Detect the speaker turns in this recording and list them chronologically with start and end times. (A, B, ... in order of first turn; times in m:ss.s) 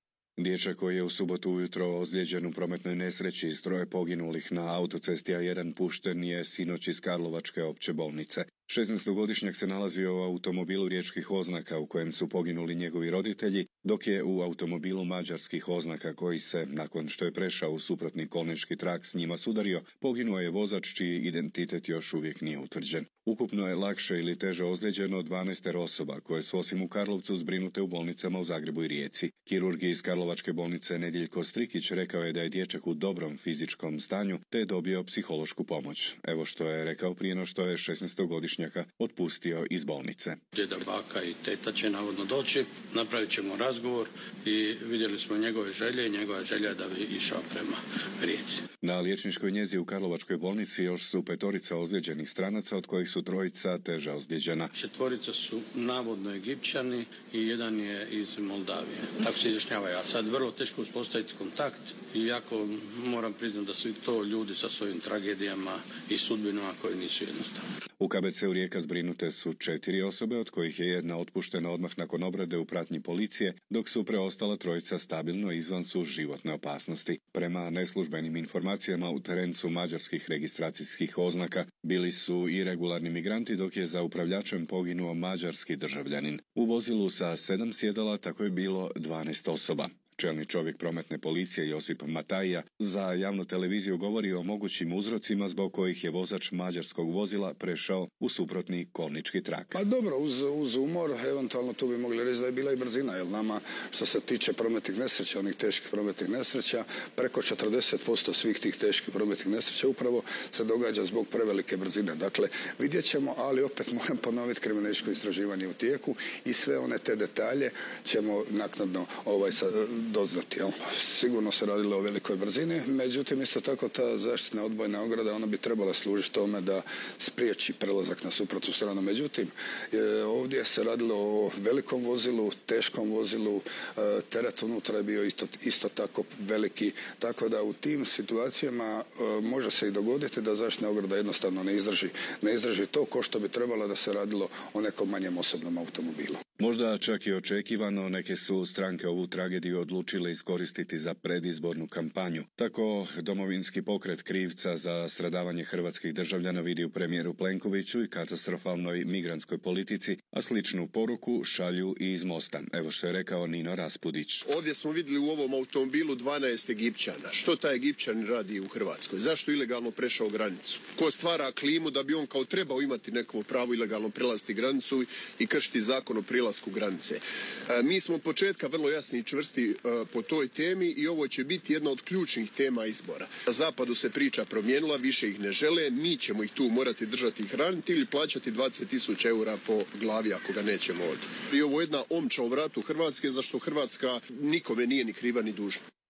0:00.4-0:40.4 A
0:40.5-0:48.6 B
0:48.8-0:54.7 A
0:54.7-1:07.6 B
1:08.0-1:39.8 A
1:39.7-2:26.4 C
2:26.6-2:44.5 A
2:44.4-3:15.8 D